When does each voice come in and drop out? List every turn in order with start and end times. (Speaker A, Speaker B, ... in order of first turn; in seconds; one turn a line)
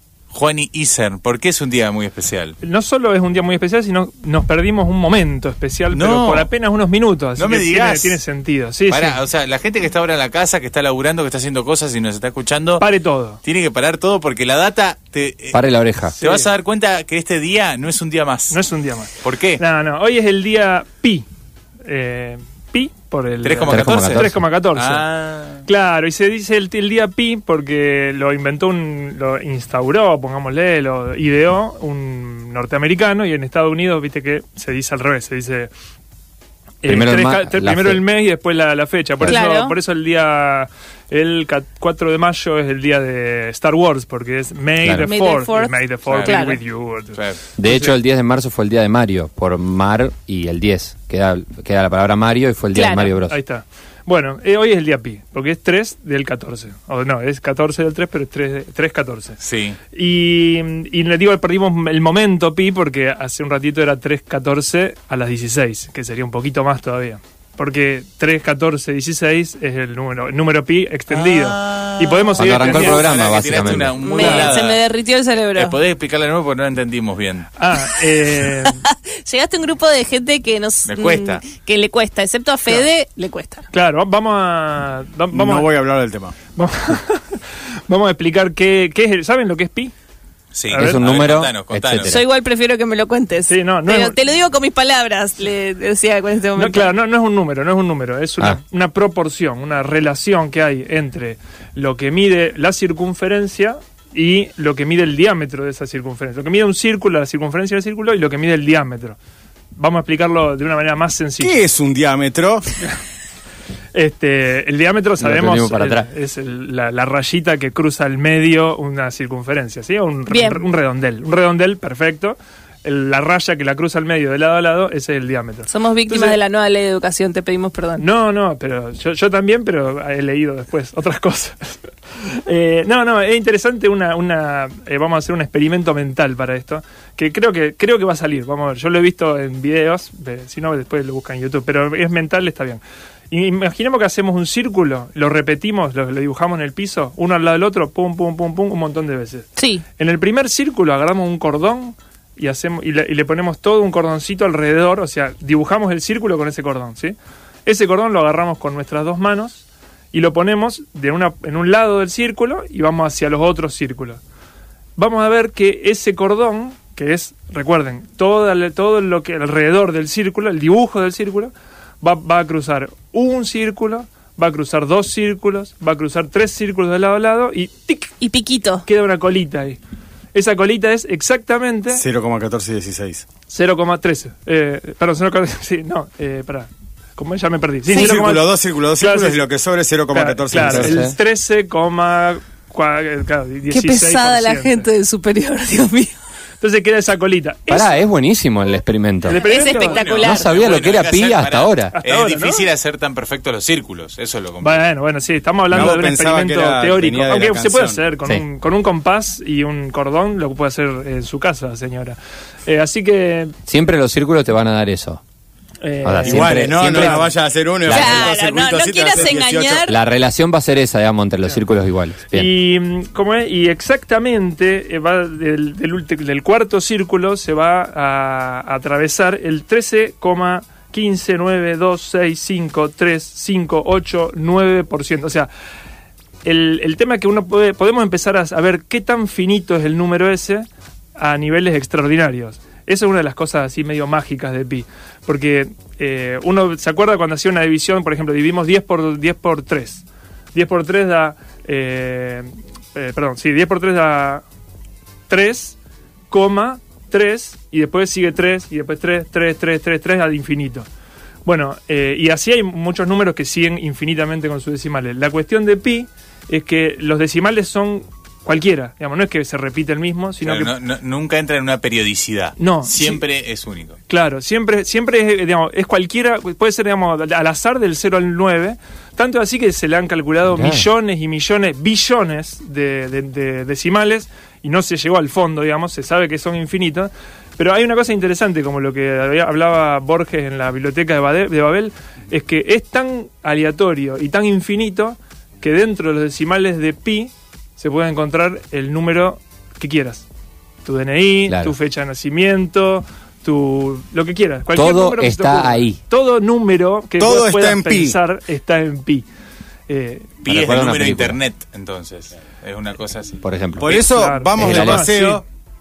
Speaker A: 0.3-2.6
Speaker B: 2.6-9.2
Speaker A: 5.9-6.5
Speaker A: 7.4-8.2
Speaker A: 8.9-12.8
Speaker B: 12.8-13.4
Speaker A: 13.4-15.6
Speaker C: 15.5-16.1
Speaker B: 16.1-16.5
Speaker A: 16.2-18.6
Speaker B: 18.5-21.2
Speaker A: 19.2-19.6
Speaker B: 21.9-25.1
Speaker A: 23.4-25.6
Speaker C: 23.7-24.4
Speaker B: 25.6-35.7
Speaker B: 36.8-47.9
Speaker C: 36.8-38.0
Speaker D: 39.2-39.8
Speaker C: 44.8-45.1
Speaker D: 45.0-46.6
Speaker A: 46.1-46.4
Speaker A: 47.1-47.4
Speaker C: 47.6-53.4
Speaker D: 52.7-53.1
Speaker B: 53.1-59.4
Speaker A: 59.4-59.8
Speaker B: 59.9-73.2
Speaker A: 71.1-74.8
Speaker C: 72.4-74.0
Speaker D: 74.0-75.8
Speaker B: 74.1-74.5
Speaker A: 75.5-77.5
Speaker B: 77.6-78.8
Speaker D: 78.5-83.7
Speaker A: 80.8-81.4
Speaker B: 83.7-85.7
Speaker E: 85.3-86.4
Speaker B: 86.5-89.9
Speaker A: 90.5-92.1
Speaker B: 90.7-91.0
Speaker C: 90.7-92.2
Speaker D: 92.0-96.9
Speaker B: 93.5-94.2
Speaker B: 96.5-109.2
Speaker B: 109.8-111.6
Speaker E: 111.4-112.7
Speaker B: 113.9-126.4
Speaker C: 115.2-116.1
Speaker D: 120.3-120.6
Speaker D: 125.7-128.0
Speaker B: 128.0-157.1
Speaker D: 149.6-149.8
Speaker B: 157.7-164.2
Speaker B: 165.0-178.2
Speaker D: 178.2-178.8
Speaker B: 178.8-179.8
Speaker B: 180.3-182.0
Speaker E: 181.9-183.2
Speaker B: 183.5-189.4
Speaker E: 187.9-191.1
Speaker B: 190.1-194.9
Speaker C: 190.5-191.1
Speaker D: 193.7-196.1
Speaker B: 196.6-198.0
Speaker C: 197.7-199.4
Speaker B: 199.2-200.2
Speaker D: 199.3-200.5
Speaker A: 199.7-204.8
Speaker C: 200.2-201.9
Speaker B: 201.9-202.7
Speaker B: 204.6-213.5
Speaker E: 205.7-208.0
Speaker C: 213.7-215.2
Speaker B: 215.8-217.3
Speaker C: 216.0-217.3
Speaker E: 216.2-219.9
Speaker C: 217.8-218.3
Speaker D: 217.9-219.9
Speaker C: 219.8-222.5
Speaker B: 222.3-235.5
Speaker B: 236.4-254.4
Speaker B: 255.3-255.8
Speaker B: 256.3-260.9
Speaker B: 261.4-270.7
Speaker A: 270.4-274.0
Speaker B: 272.6-273.2
Speaker B: 274.1-300.2
Speaker C: 280.5-280.9
Speaker B: 300.8-309.2
Speaker C: 304.7-306.0
Speaker E: 307.2-308.1
Speaker B: 309.9-310.3
Speaker A: 310.4-314.0
Speaker C: 310.4-311.4
Speaker C: 313.4-313.9
Speaker E: 313.8-315.4
Speaker B: 313.9-315.4
Speaker C: 314.6-315.1